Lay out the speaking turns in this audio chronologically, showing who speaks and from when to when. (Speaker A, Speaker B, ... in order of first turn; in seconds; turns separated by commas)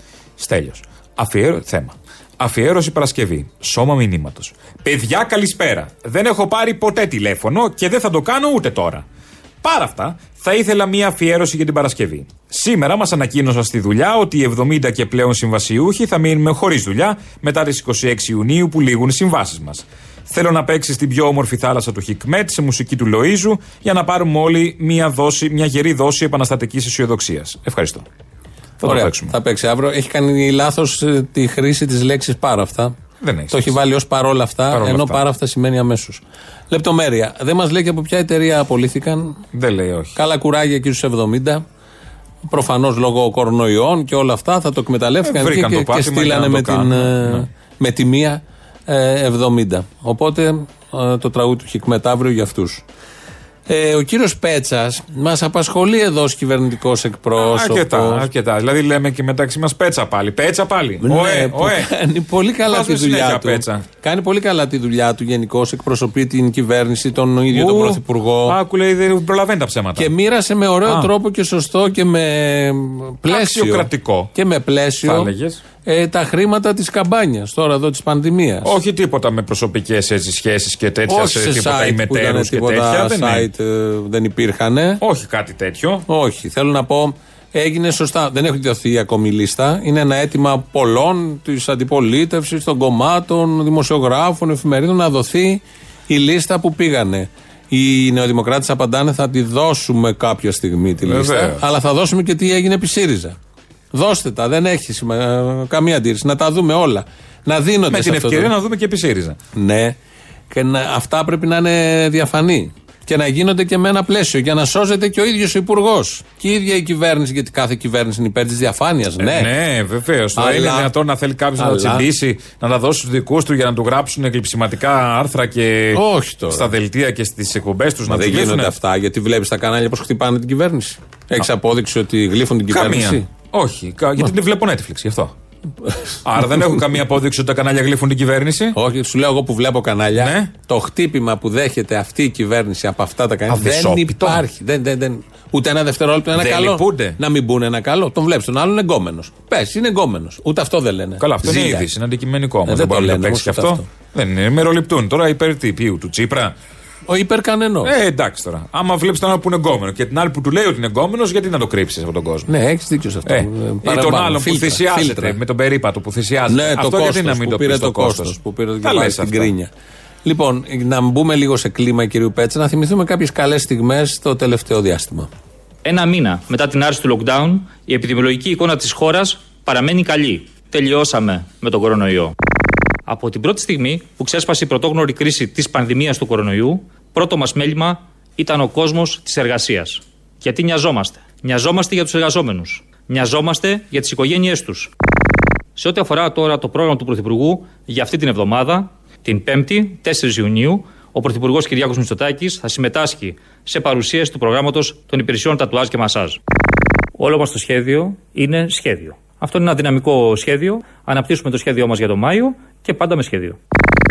Speaker A: 0.4-9.0, Speaker A: 9.6-28.0, Speaker A: 28.8-29.3, Speaker B: 28.8-33.0, Speaker A: 33.2-33.8, Speaker B: 33.5-39.4, Speaker A: 34.7-35.2, Speaker A: 39.5-40.1, Speaker B: 40.1-41.6, Speaker B: 42.5-52.8, Speaker A: 45.2-47.5, Speaker B: 53.7-58.3, Speaker A: 57.4-61.9, Speaker B: 61.0-68.6, Speaker A: 62.6-63.8, Speaker A: 67.5-70.1, Speaker B: 70.0-75.3, Speaker A: 70.8-71.1, Speaker A: 73.2-74.3, Speaker A: 75.0-75.6, Speaker B: 75.8-78.7, Speaker A: 78.6-83.5, Speaker B: 81.1-85.0, Speaker A: 85.0-86.0, Speaker B: 86.1-103.4, Speaker A: 101.0-101.6, Speaker B: 103.9-108.5, Speaker A: 107.9-109.4, Speaker B: 109.5-110.0, Speaker B: 110.5-119.5, Speaker A: 119.2-128.7, Speaker B: 120.3-120.9, Speaker B: 121.6-122.1, Speaker B: 125.9-126.7, Speaker B: 128.1-133.3, Speaker A: 132.7-135.3, Speaker B: 135.8-136.8, Speaker A: 136.2-138.7, Speaker B: 138.7-151.9, Speaker A: 140.2-140.5, Speaker A: 143.5-144.4, Speaker A: 146.3-147.2, Speaker A: 151.2-156.5, Speaker B: 152.7-153.9, Speaker B: 157.1-157.9, Speaker A: 157.8-162.5, Speaker B: 162.5-165.4, Speaker A: 163.2-169.5, Speaker B: 166.5-169.7, Speaker B: 170.2-175.3, Speaker C: 175.8-182.3, Speaker C: 183.1-194.9, Speaker C: 195.8-206.4, Speaker C: 207.2-213.6